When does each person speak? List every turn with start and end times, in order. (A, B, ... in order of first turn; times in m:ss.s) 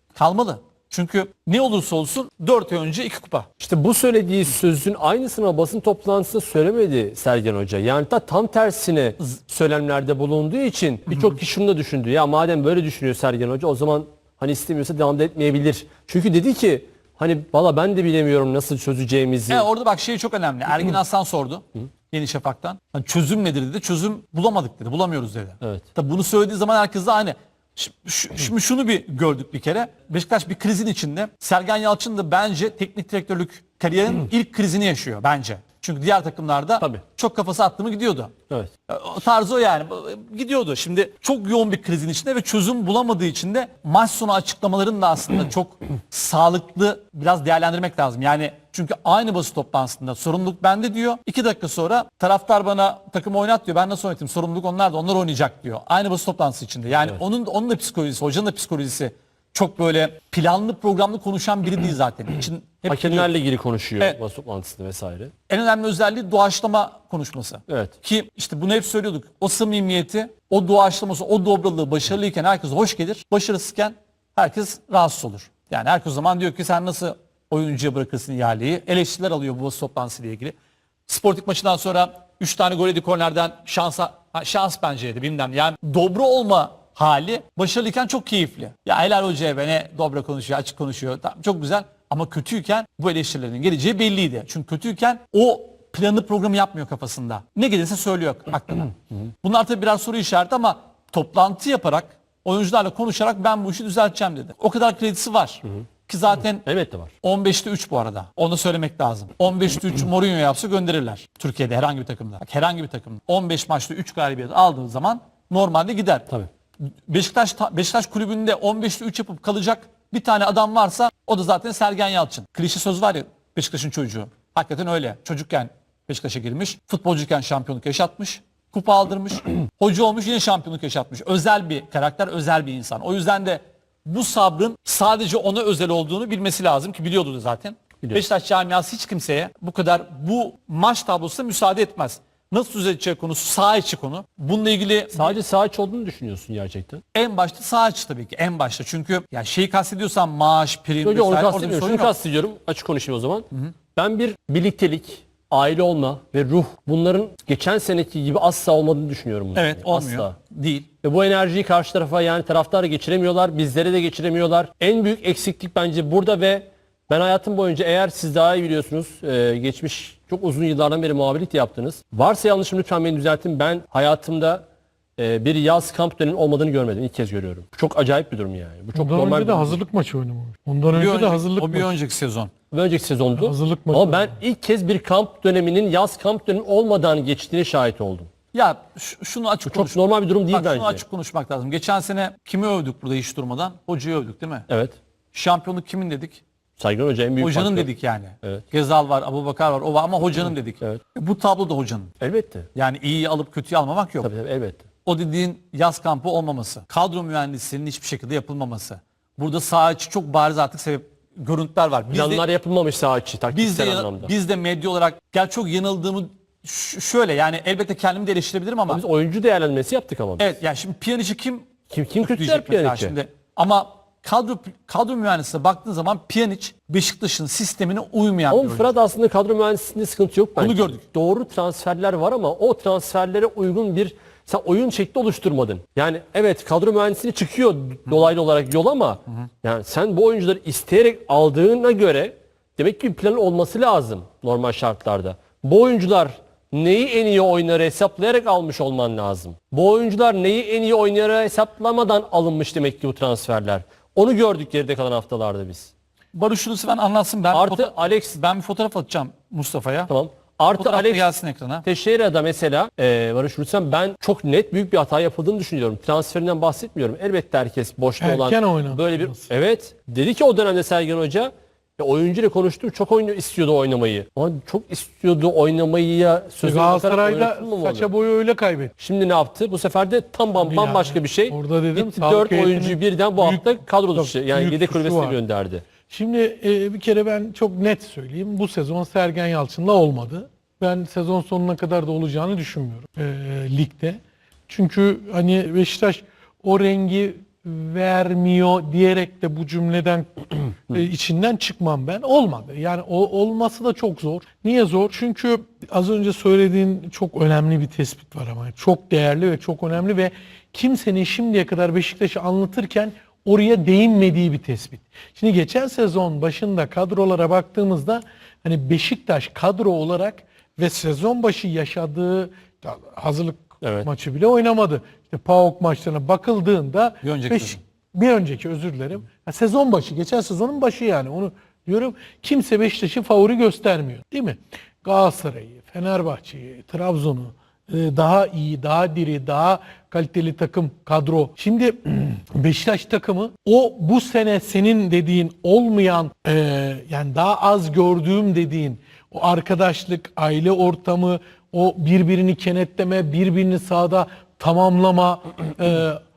0:00.1-0:03.5 A
0:03.6-0:19.7 B
0:19.5-1:03.3 A
1:02.9-1:05.3 B
1:05.5-1:20.6 A
1:21.1-1:46.7 A
1:46.6-1:47.1 B
1:47.2-1:56.3 A
1:57.1-2:25.4 A
2:25.1-2:27.0 B
2:27.1-2:32.1 A
2:31.0-2:40.3 B
2:39.5-2:40.9 A
2:41.0-2:54.6 B
2:55.2-2:59.8 B
2:58.9-3:01.9 C
3:00.9-3:02.5 A
3:02.7-3:08.3 B
3:03.4-3:04.3 C
3:08.5-3:14.7 A
3:09.6-3:11.0 B
3:14.7-3:15.0 B
3:15.3-3:16.4 A
3:16.8-3:17.9 B
3:17.4-3:22.1 A
3:22.2-3:22.7 B
3:22.7-3:24.3 A
3:24.2-3:24.9 B
3:25.0-3:32.4 A
3:32.1-3:34.3 B
3:33.5-3:39.0 A
3:38.9-3:40.5 B
3:40.4-3:48.9 A
3:41.9-3:43.1 B
3:48.5-4:15.9 B
3:50.6-3:51.0 A
4:16.3-4:20.1 A
4:17.5-4:18.4 B
4:20.1-4:21.3 B
4:20.8-4:21.8 A
4:21.8-4:38.1 B
4:28.2-4:29.5 C
4:36.6-4:38.9 C
4:39.0-4:45.8 B
4:40.6-4:45.4 C
4:46.1-5:56.2 C
5:23.8-5:24.1 B
5:27.2-5:27.8 A